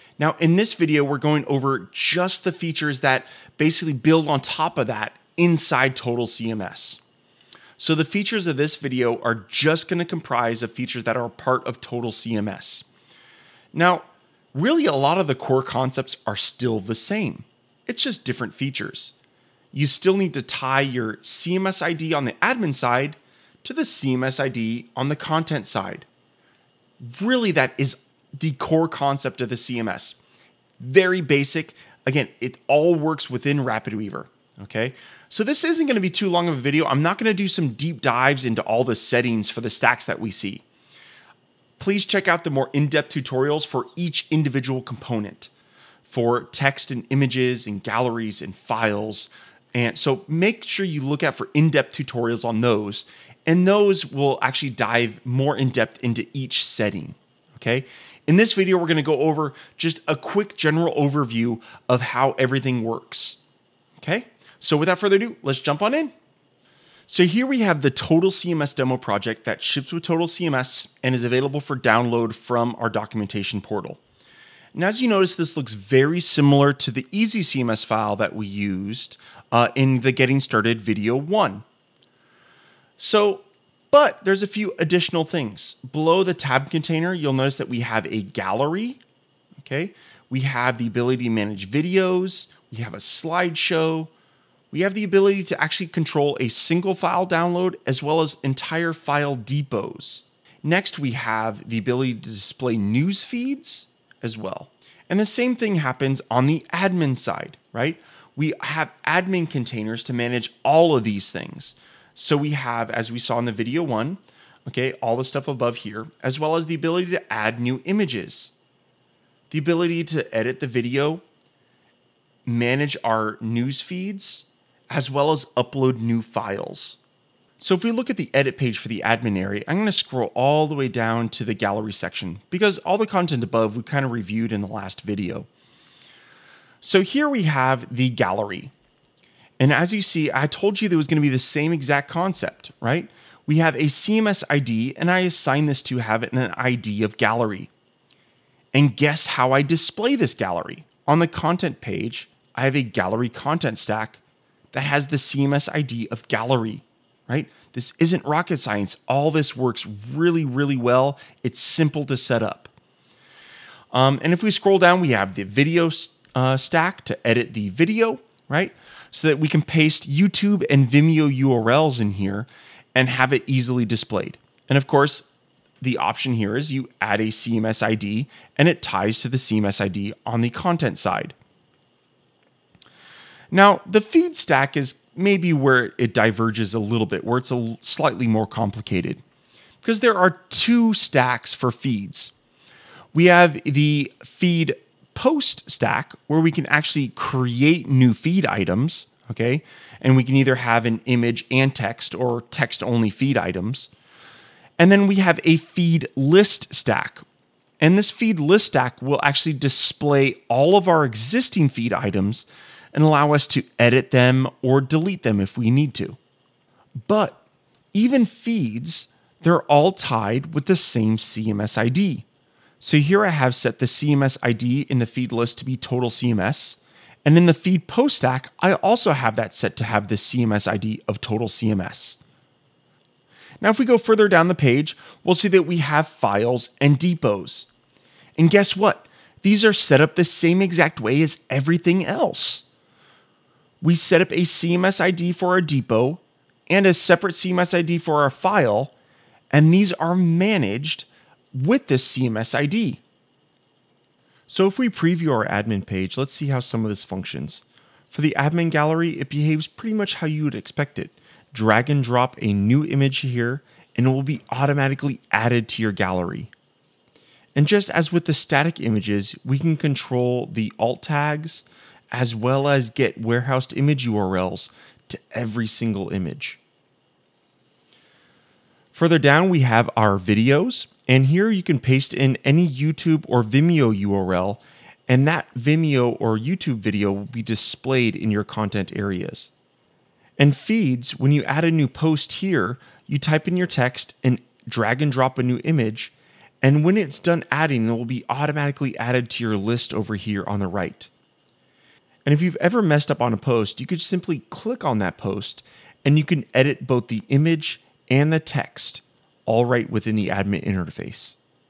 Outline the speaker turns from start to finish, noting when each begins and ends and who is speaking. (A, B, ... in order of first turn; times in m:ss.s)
0:00.2-0:07.0 A
0:07.8-0:12.8 A
0:13.7-0:19.1 A
0:19.7-0:26.1 A
0:27.0-0:30.2 A
0:30.8-0:40.6 A
0:41.8-0:45.5 A
0:46.0-1:03.4 A
1:04.0-1:06.1 A
1:07.1-1:14.0 A
1:14.7-1:21.6 A
1:23.0-1:29.0 A
1:29.6-1:34.1 A
1:34.7-1:58.5 A
1:59.5-2:01.2 A
2:02.4-2:07.0 A
2:07.6-2:15.5 A
2:16.8-2:18.7 A
2:19.6-2:27.7 A
2:28.7-2:34.2 A
2:34.7-2:42.7 A
2:43.9-2:55.3 A
2:55.8-3:01.4 A
3:03.5-3:09.2 A
3:09.8-3:12.3 A
3:13.1-3:23.9 A
3:24.8-3:27.2 A
3:27.8-3:36.2 A
3:37.0-3:37.4 A
3:37.9-3:42.2 A
3:42.8-3:52.2 A
3:53.6-3:57.7 A
3:58.4-4:02.6 A
4:03.8-4:08.9 A
4:09.5-4:13.0 A
4:14.5-4:26.5 A
4:27.5-4:36.6 A
4:38.9-4:49.5 A
4:50.4-5:01.1 A
5:02.2-5:11.4 A